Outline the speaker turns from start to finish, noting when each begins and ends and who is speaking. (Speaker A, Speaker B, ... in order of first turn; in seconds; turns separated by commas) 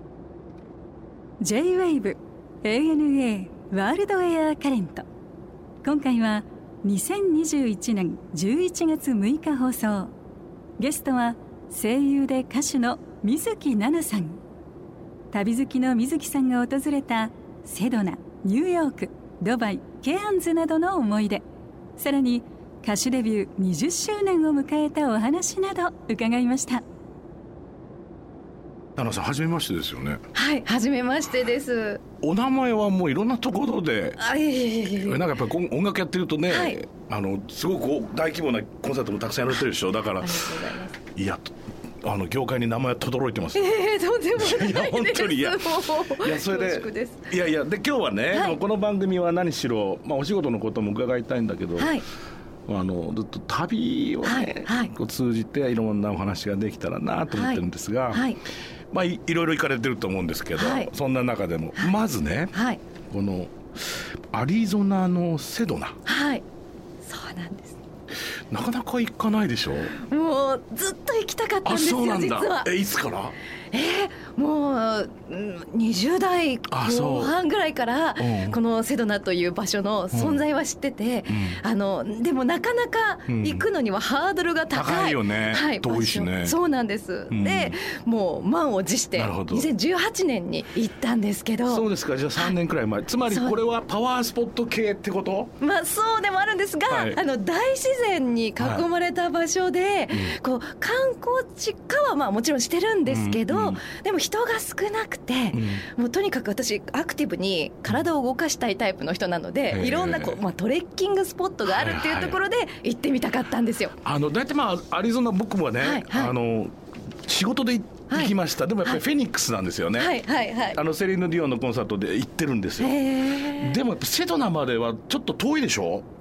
Speaker A: 1.4-5.0, Speaker A: 5.8-10.1, Speaker A: 10.8-14.4, Speaker A: 15.3-21.4, Speaker A: 22.0-26.8, Speaker B: 29.0-30.2, Speaker C: 30.3-32.0, Speaker B: 32.2-34.2, Speaker C: 34.2-35.2, Speaker B: 35.0-43.8, Speaker C: 36.5-36.8, Speaker C: 40.2-41.0, Speaker C: 43.5-47.3, Speaker B: 44.4-52.0, Speaker C: 48.3-48.6, Speaker C: 51.8-52.0, Speaker B: 52.7-58.3, Speaker C: 54.2-54.9, Speaker C: 57.3-58.4, Speaker B: 58.9-62.5, Speaker C: 60.6-60.9, Speaker C: 62.5-62.8, Speaker B: 63.1-66.0, Speaker C: 66.1-66.4, Speaker C: 67.0-67.8, Speaker B: 68.5-69.9, Speaker C: 69.9-72.7, Speaker B: 71.7-73.4, Speaker C: 73.7-91.9, Speaker B: 76.7-77.3, Speaker B: 78.2-78.6, Speaker B: 80.1-80.4, Speaker B: 81.3-81.6, Speaker B: 83.3-83.7, Speaker B: 84.7-86.6, Speaker B: 87.3-87.8, Speaker B: 89.2-89.7, Speaker B: 91.7-95.5, Speaker C: 93.3-93.6, Speaker C: 95.6-113.9, Speaker B: 96.9-97.2, Speaker B: 98.6-98.9, Speaker B: 100.1-100.4, Speaker B: 103.1-103.8, Speaker B: 105.5-105.9, Speaker B: 109.7-110.4, Speaker B: 111.7-112.4, Speaker B: 114.0-120.2, Speaker C: 115.8-116.3, Speaker C: 120.0-120.8, Speaker B: 120.7-126.1, Speaker C: 122.8-123.8